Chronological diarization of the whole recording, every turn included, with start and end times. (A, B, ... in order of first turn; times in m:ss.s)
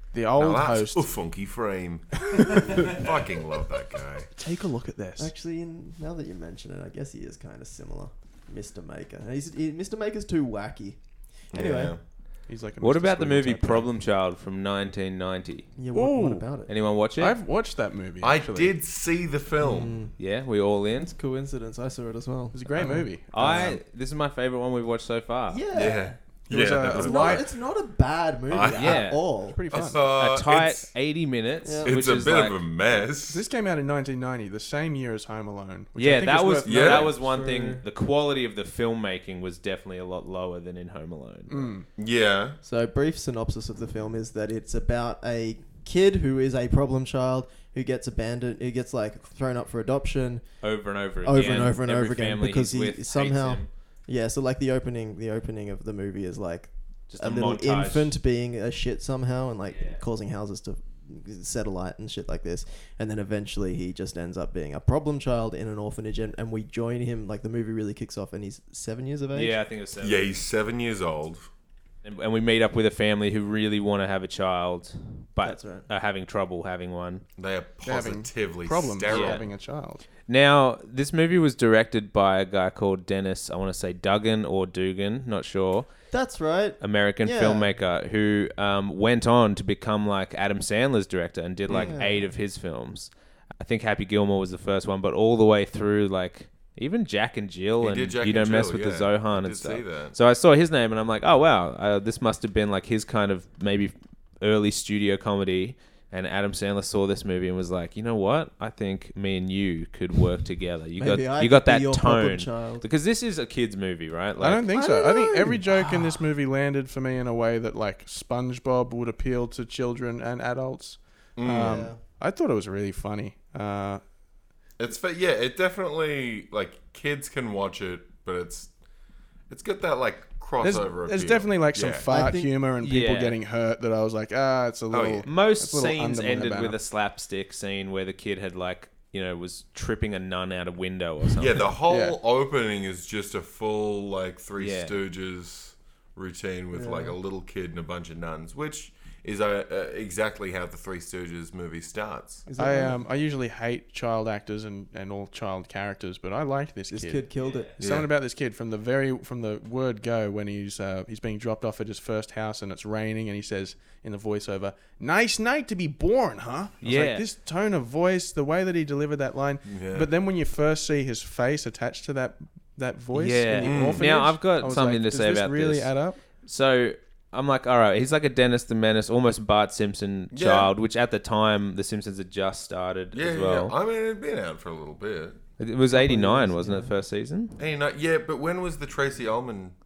0:00.1-0:01.1 A
0:00.4-0:04.3 B
0:02.3-0:02.9 A
0:04.4-0:05.3 A
0:05.2-0:11.9 C
0:11.5-0:12.0 B
0:12.5-0:13.9 A
0:12.8-0:15.7 D
0:15.8-0:16.7 C
0:15.9-0:16.5 A
0:16.7-0:17.3 D
0:17.2-0:18.7 A
0:18.2-0:20.0 B
0:19.6-0:20.1 C
0:20.2-0:21.1 D
0:21.0-0:23.8 C
0:22.5-0:23.6 A
0:23.3-0:25.6 D
0:25.5-0:26.2 C
0:25.7-0:27.4 B
0:26.5-0:27.4 A
0:26.8-0:29.6 C
0:28.5-0:29.1 B
0:28.7-0:29.2 D
0:29.5-0:30.1 A
0:29.7-0:30.9 B
0:30.1-0:32.6 D
0:31.6-0:32.0 C
0:31.8-0:33.4 B
0:33.3-0:37.1 A
0:36.0-0:41.7 D
0:36.6-0:37.1 B
0:37.1-0:37.8 C
0:41.5-0:41.9 A
0:42.0-0:42.6 B
0:42.6-0:50.4 C
0:50.6-0:53.7 D
0:51.2-1:09.6 C
0:57.1-0:58.1 D
0:59.7-1:00.0 D
1:09.3-1:10.4 D
1:10.0-1:11.5 B
1:12.0-1:17.2 D
1:15.4-1:15.9 C
1:17.4-1:19.4 B
1:17.8-1:20.1 A
1:19.1-1:19.4 D
1:20.3-1:25.9 D
1:26.1-1:27.7 C
1:26.8-1:54.7 D
1:31.7-1:31.9 B
1:31.7-1:32.3 C
1:37.8-1:40.2 B
1:51.0-1:52.9 C
1:54.4-2:04.0 A
1:54.7-1:56.2 C
2:01.4-2:01.9 B
2:01.5-2:02.0 C
2:04.8-2:08.7 B
2:09.5-2:12.1 B
2:10.6-2:16.8 A
2:12.1-2:12.5 C
2:12.8-2:13.4 D
2:14.9-2:15.3 B
2:15.2-2:21.7 D
2:21.4-2:32.5 B
2:21.9-2:22.2 A
2:24.6-2:25.0 D
2:26.7-2:27.2 C
2:32.5-2:33.0 C
2:32.6-2:37.3 A
2:36.9-2:37.7 C
2:37.4-2:37.7 D
2:37.8-2:38.1 B
2:37.8-2:56.2 A
2:46.8-2:47.2 D
2:49.7-2:50.1 B
2:53.1-2:55.9 D
2:53.6-2:54.2 B
2:56.4-3:03.7 D
3:00.3-3:00.7 B
3:03.1-3:05.4 B
3:05.6-3:07.6 D
3:05.9-3:06.9 C
3:07.6-3:09.8 B